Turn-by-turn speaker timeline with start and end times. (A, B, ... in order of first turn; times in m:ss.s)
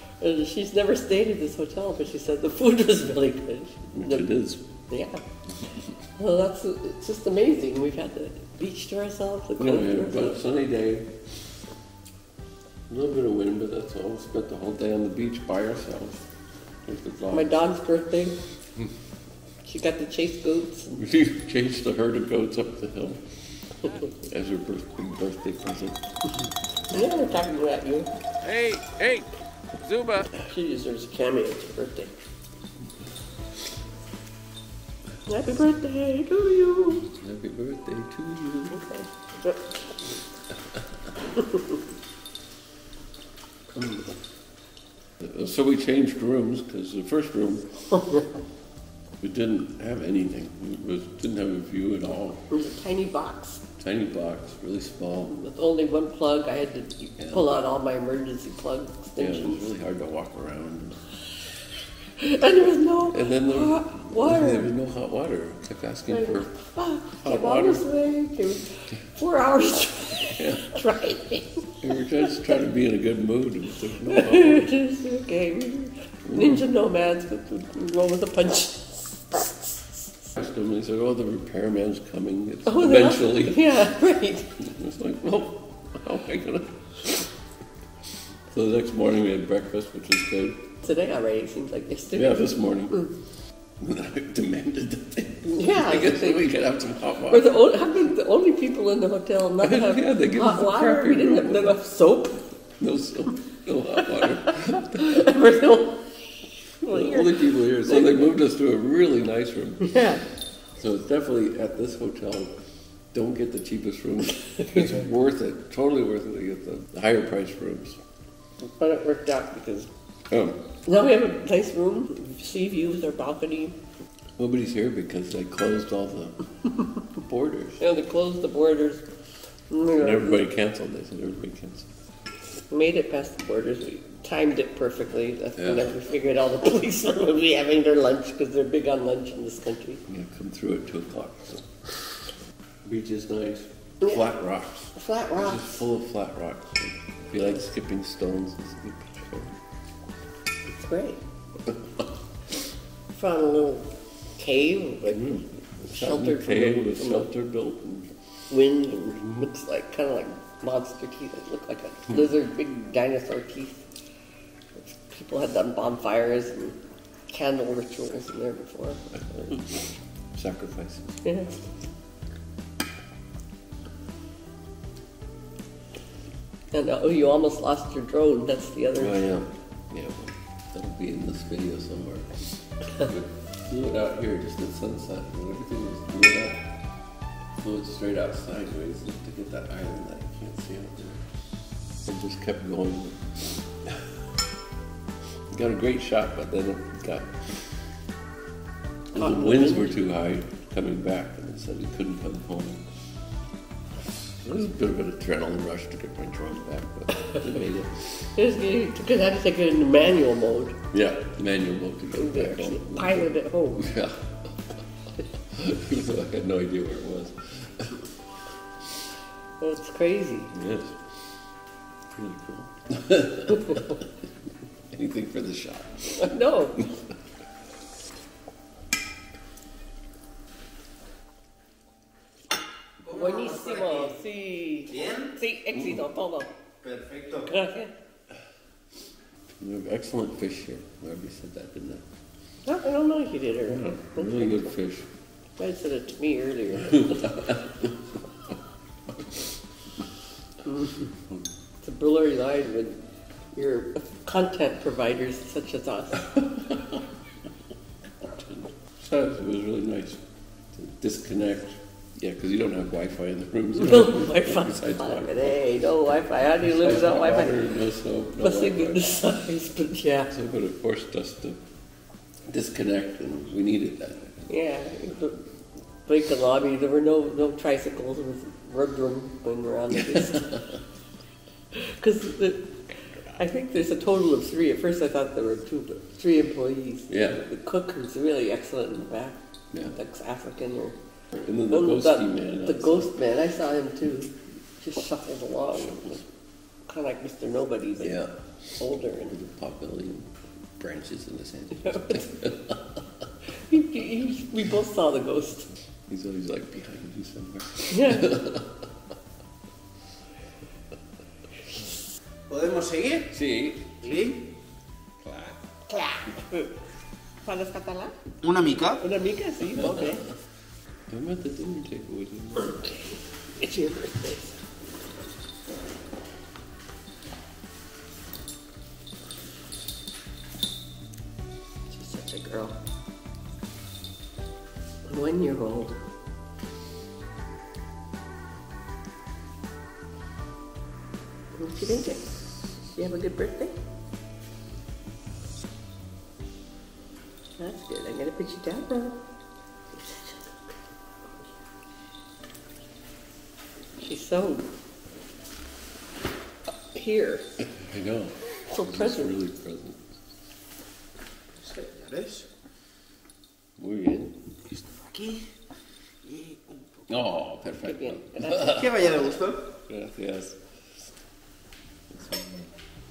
0:00.2-0:04.3 A
0:03.9-0:04.7 B
0:04.9-0:05.2 A
0:06.2-0:10.4 A
0:09.6-0:11.1 B
0:12.9-0:16.2 B
0:16.8-0:17.7 B
0:17.3-0:18.4 A
0:19.6-0:21.0 A
0:21.0-0:23.2 B
0:24.1-0:26.4 B
0:26.9-0:28.1 A
0:28.4-0:30.3 B
0:30.3-0:32.1 A
0:35.2-0:37.1 A
0:36.9-0:38.8 B
0:38.7-0:40.0 A
0:41.3-0:41.8 A
0:43.8-0:44.1 B
0:45.2-0:47.8 B
0:47.9-0:48.3 A
0:49.2-0:52.4 B
0:52.5-0:53.6 A
0:53.8-0:55.4 B
0:55.3-0:59.7 A
0:57.2-0:57.4 B
0:59.2-1:01.0 B
1:02.2-1:04.7 A
1:03.1-1:06.5 B
1:06.1-1:11.8 A
1:07.2-1:07.8 B
1:10.2-1:10.7 B
1:11.8-1:14.7 B
1:14.0-1:20.3 A
1:16.2-1:16.6 B
1:20.3-1:23.9 B
1:22.6-1:24.6 A
1:24.6-1:27.3 B
1:28.5-1:30.7 B
1:30.8-1:33.1 A
1:32.1-1:33.1 B
1:33.8-1:37.7 B
1:35.4-1:36.4 A
1:37.3-1:42.5 A
1:39.6-1:41.8 B
1:42.8-1:45.3 B
1:44.0-1:48.3 A
1:46.8-1:50.1 B
1:49.8-1:50.2 A
1:50.7-1:52.5 B
1:53.1-1:58.0 B
1:58.6-1:59.9 A
2:00.3-2:00.6 B
2:00.8-2:03.8 A
2:04.4-2:07.8 B
2:07.8-2:09.0 A
2:09.7-2:10.4 A
2:10.0-2:11.9 B
2:12.7-2:20.0 A
2:15.6-2:15.9 B
2:20.1-2:21.9 B
2:22.8-2:29.5 B
2:24.9-2:25.8 A
2:30.6-2:31.2 A
2:33.1-2:37.3 A
2:35.1-2:38.1 B
2:38.5-2:43.8 A
2:44.8-2:46.8 A
2:47.3-2:49.5 A
2:49.1-2:51.6 B
2:51.2-2:51.6 A
2:56.7-2:59.2 A
2:59.0-3:06.7 B
3:07.6-3:11.2 B
3:12.0-3:14.0 B
3:15.5-3:17.6 B
3:19.1-3:20.0 A
3:19.1-3:22.8 B
3:24.0-3:28.3 B
3:28.3-3:30.8 A
3:30.9-3:34.8 B
3:32.1-3:33.9 A
3:35.4-3:38.1 B
3:39.6-3:40.5 A
3:40.5-3:41.1 B
3:42.1-3:44.1 B
3:44.9-3:47.0 B
3:46.2-3:46.9 A
3:53.0-3:56.5 A
3:55.8-3:56.0 B
3:56.8-3:57.4 C
3:57.3-3:57.9 A
3:59.6-4:02.0 B
4:02.6-4:04.6 A
4:03.6-4:05.1 B
4:05.6-4:07.7 A
4:06.7-4:07.9 B
4:10.6-4:11.1 A
4:11.8-4:13.0 A
4:13.5-4:16.3 A
4:16.3-4:17.0 B
4:18.2-4:20.2 B
4:20.7-4:25.6 B
4:23.7-4:27.6 A
4:26.6-4:29.2 B
4:28.4-4:30.3 A
4:30.3-4:31.6 B
4:32.5-4:34.5 B
4:34.5-4:35.4 A
4:36.0-4:40.6 A
4:39.9-4:40.8 B
4:41.7-4:51.0 A
4:47.1-4:47.4 B
4:51.3-4:53.1 B
4:51.7-4:56.3 A
4:55.7-4:56.2 B
4:56.9-4:58.2 A
4:58.0-4:58.3 B
4:58.8-4:59.4 A
4:59.2-5:03.0 B
5:01.8-5:02.4 A
5:03.6-5:05.7 A
5:06.1-5:08.8 B
5:07.9-5:08.4 A
5:12.5-5:13.3 C
5:13.3-5:14.2 B
5:14.0-5:14.5 C
5:15.2-5:15.6 B
5:15.9-5:16.8 A
5:17.4-5:18.2 A
5:18.4-5:19.0 C
5:18.9-5:20.3 A
5:21.1-5:22.8 B
5:23.6-5:24.6 A
5:31.9-5:32.7 A
5:35.1-5:36.0 A
5:41.5-5:43.8 A
5:47.6-5:49.2 A
5:49.9-5:51.5 A
5:54.0-5:54.6 A
5:56.9-5:57.4 A
5:57.6-6:00.0 B
5:58.6-5:59.3 A
6:01.6-6:02.5 C
6:03.8-6:04.4 B
6:04.8-6:05.5 C
6:06.3-6:06.5 C
6:07.1-6:09.2 B
6:07.8-6:09.4 A
6:08.6-6:09.7 C
6:09.9-6:11.1 B
6:12.1-6:12.7 B